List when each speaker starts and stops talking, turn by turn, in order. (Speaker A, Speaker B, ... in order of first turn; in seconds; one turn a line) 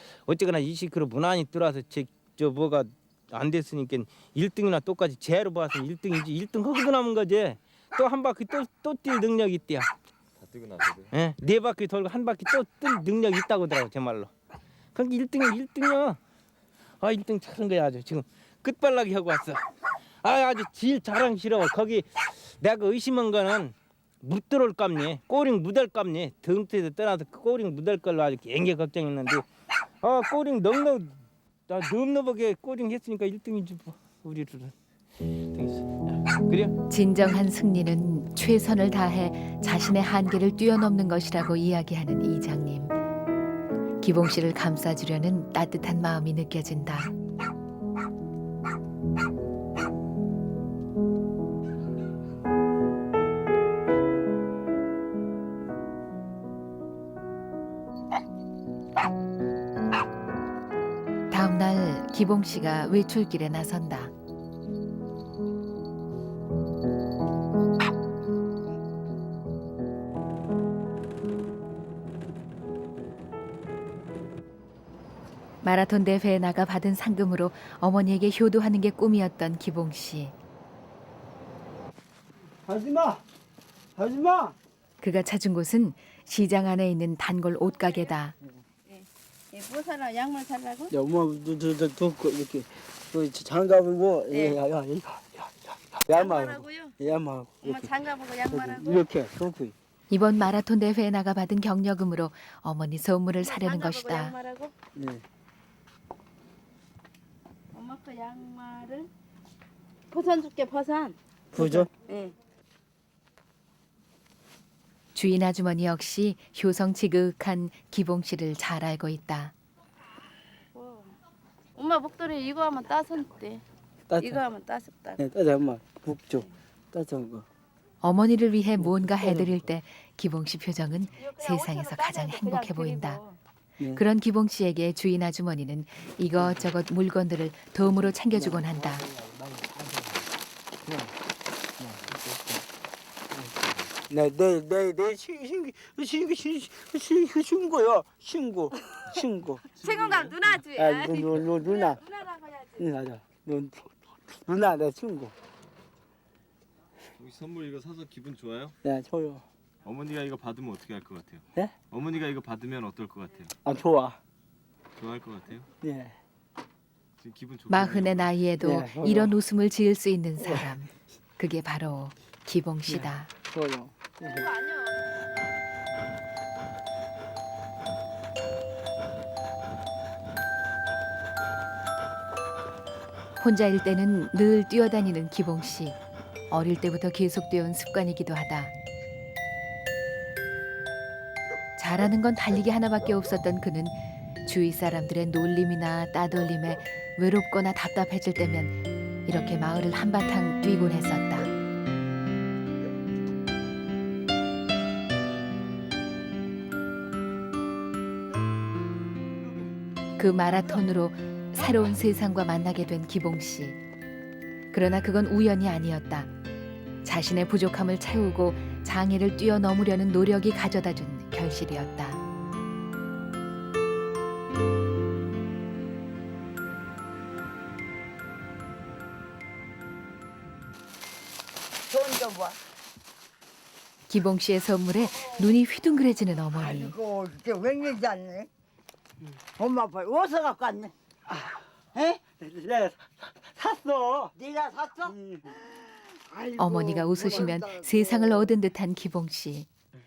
Speaker A: 0.2-9.9
Speaker B: 10.4-11.1
Speaker A: 11.1-14.3
Speaker A: 14.9-16.2
Speaker A: 17.0-19.7
Speaker A: 20.2-29.4
Speaker A: 30.0-34.7
Speaker A: 35.5-36.8
Speaker C: 36.9-42.9
Speaker C: 44.0-47.1
Speaker C: 61.3-64.1
Speaker C: 75.6-80.3
Speaker D: 82.7-83.2
Speaker D: 84.0-84.5
Speaker C: 85.0-88.3
Speaker E: 87.6-88.1
Speaker E: 88.9-90.9
Speaker D: 90.9-98.0
Speaker E: 94.3-94.6
Speaker E: 96.1-97.0
Speaker E: 97.6-99.0
Speaker D: 98.5-99.7
Speaker C: 100.1-104.3
Speaker E: 103.4-104.7
Speaker D: 104.9-105.2
Speaker E: 107.7-109.1
Speaker E: 110.1-112.3
Speaker D: 111.5-111.9
Speaker C: 115.1-119.5
Speaker E: 120.7-121.2
Speaker E: 121.8-123.6
Speaker D: 124.1-124.4
Speaker E: 124.2-125.2
Speaker D: 125.2-127.5
Speaker C: 128.0-133.2
Speaker D: 128.8-129.7
Speaker E: 131.2-133.4
Speaker C: 133.9-139.1
Speaker D: 136.4-136.7
Speaker D: 137.8-140.2
Speaker D: 140.8-141.1
Speaker D: 141.8-142.6
Speaker D: 144.1-149.7
Speaker E: 149.8-152.9
Speaker B: 149.8-150.3
Speaker D: 150.7-152.0
Speaker D: 152.8-155.3
Speaker B: 157.2-158.8
Speaker D: 158.8-159.4
Speaker B: 159.8-163.5
Speaker D: 163.6-164.2
Speaker B: 164.9-165.7
Speaker D: 165.8-166.2
Speaker B: 167.2-168.3
Speaker C: 167.7-173.3
Speaker D: 168.6-169.3
Speaker D: 170.4-170.7
Speaker D: 172.8-174.5
Speaker E: 174.2-175.1
Speaker C: 183.4-186.0
Speaker C: 186.5-188.7
Speaker C: 191.8-201.5
Speaker C: 210.2-213.8
Speaker C: 214.7-216.3
Speaker C: 217.0-222.2
Speaker F: 231.9-232.6
Speaker C: 234.1-236.9
Speaker F: 236.5-238.5
Speaker F: 239.6-240.9
Speaker D: 241.3-241.6
Speaker F: 241.9-242.2
Speaker D: 242.2-244.3
Speaker F: 244.3-248.5
Speaker D: 245.1-245.5
Speaker C: 246.6-249.7